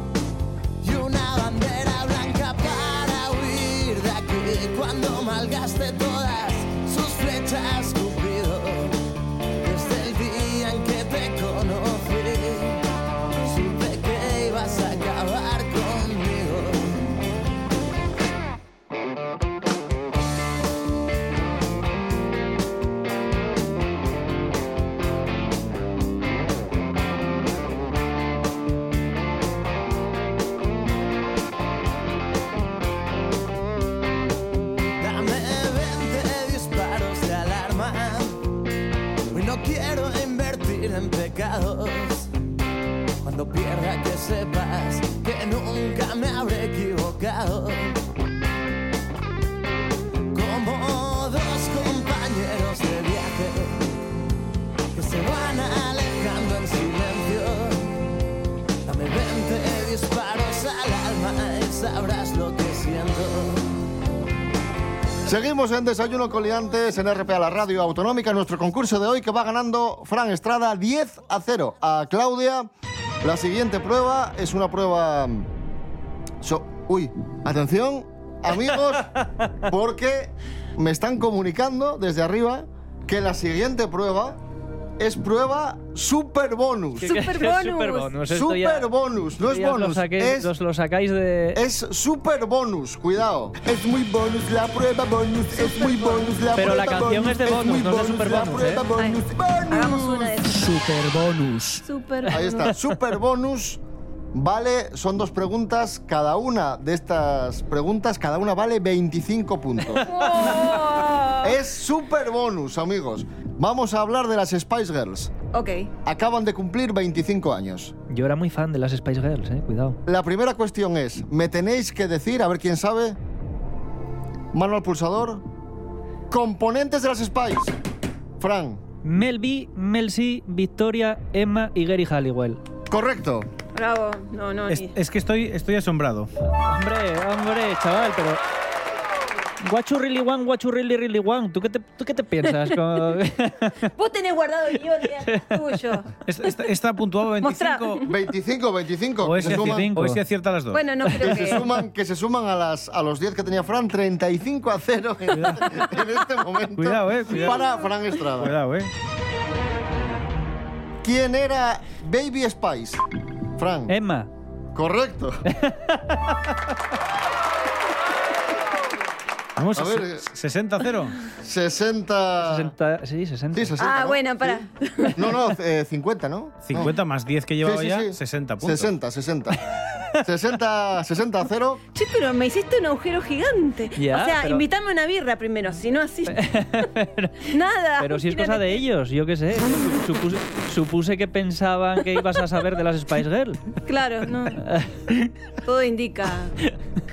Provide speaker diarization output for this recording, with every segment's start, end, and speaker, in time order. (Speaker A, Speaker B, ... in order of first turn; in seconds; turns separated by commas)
Speaker A: 0.8-9.0, Speaker A: 9.6-12.8, Speaker A: 13.3-17.0, Speaker A: 35.0-38.4, Speaker A: 39.3-42.3, Speaker A: 43.2-48.0, Speaker A: 50.3-53.8, Speaker A: 54.9-57.9, Speaker A: 58.9-63.7, Speaker B: 65.2-72.7, Speaker B: 73.2-75.5, Speaker B: 76.4-84.4, Speaker B: 85.0-87.2, Speaker C: 87.0-88.9, Speaker D: 87.0-88.1, Speaker B: 88.2-90.5, Speaker C: 89.4-91.6, Speaker B: 91.5-100.3, Speaker C: 96.5-98.8, Speaker D: 99.0-100.7, Speaker E: 100.5-101.8, Speaker D: 101.8-102.7, Speaker B: 102.3-103.8, Speaker B: 104.3-110.2, Speaker D: 110.1-111.5, Speaker B: 111.4-115.3, Speaker D: 115.5-115.9, Speaker B: 116.0-117.9, Speaker C: 118.1-120.0, Speaker B: 120.0-123.2, Speaker B: 124.5-125.4, Speaker B: 126.3-127.7, Speaker B: 128.4-128.8, Speaker C: 129.0-132.6, Speaker B: 132.9-133.5, Speaker D: 133.7-134.9, Speaker E: 134.7-136.3, Speaker C: 136.6-138.4, Speaker C: 139.6-143.9, Speaker D: 142.4-142.9, Speaker D: 143.9-146.1, Speaker E: 146.2-148.0, Speaker D: 147.4-148.1, Speaker B: 148.1-149.9, Speaker E: 149.2-151.4, Speaker C: 149.3-150.2, Speaker D: 150.7-151.6, Speaker B: 151.2-158.5, Speaker C: 155.3-155.7, Speaker E: 156.8-157.6, Speaker E: 158.2-158.9, Speaker B: 161.0-163.0, Speaker B: 163.6-163.9, Speaker C: 163.9-164.3, Speaker B: 164.7-165.4, Speaker C: 165.5-166.2, Speaker E: 169.6-171.2, Speaker B: 169.7-170.2, Speaker B: 171.4-172.7, Speaker C: 172.4-173.8, Speaker B: 173.5-176.9, Speaker D: 173.8-175.2, Speaker E: 176.7-178.9, Speaker B: 177.6-179.6, Speaker B: 180.2-181.8, Speaker D: 181.9-186.5, Speaker C: 184.0-184.6, Speaker C: 186.3-193.6, Speaker D: 187.5-188.8, Speaker D: 193.8-194.6, Speaker C: 194.6-195.3, Speaker D: 195.6-196.6